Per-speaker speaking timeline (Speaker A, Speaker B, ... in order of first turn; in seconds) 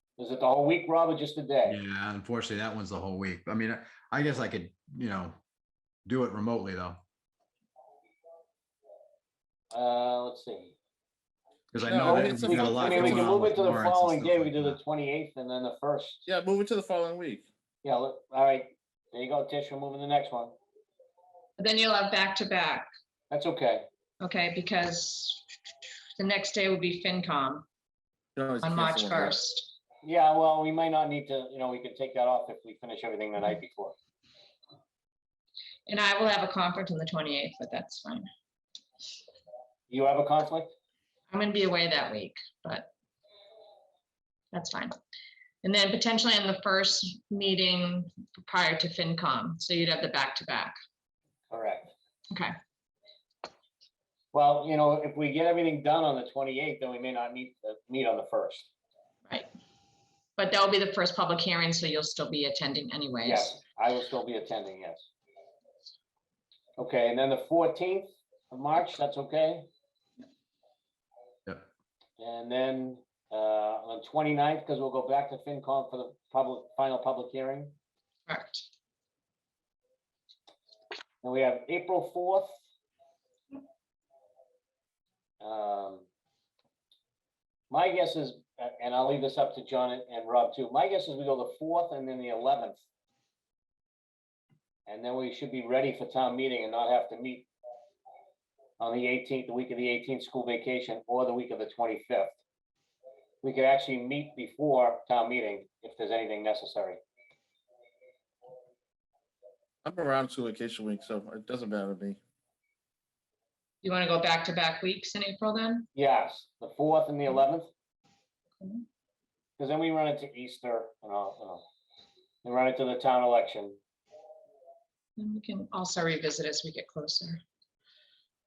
Speaker A: 0.2-1.8, 9.7-10.8, 11.9-16.2, 17.8-20.6, 23.3-23.9, 30.0-34.0, 39.9-40.7, 51.5-51.9, 54.3-58.7, 63.2-65.1, 66.8-69.7, 72.2-77.8, 81.2-82.5, 85.4-86.1, 87.7-92.8, 94.9-97.5, 98.8-102.4, 103.4-107.0, 116.0-117.7, 119.6-121.7, 122.4-123.8
Speaker B: 1.6-5.4, 6.1-7.0, 11.7-14.8
Speaker C: 11.8-13.3, 16.3-17.5, 28.4-29.4, 109.8-112.2
Speaker D: 21.6-22.9, 24.2-25.5, 26.2-27.6, 28.6-29.7, 35.9-38.3, 41.3-42.9, 44.5-44.9, 45.6-50.8, 60.4-63.6, 78.3-78.7, 113.8-115.9, 125.2-127.4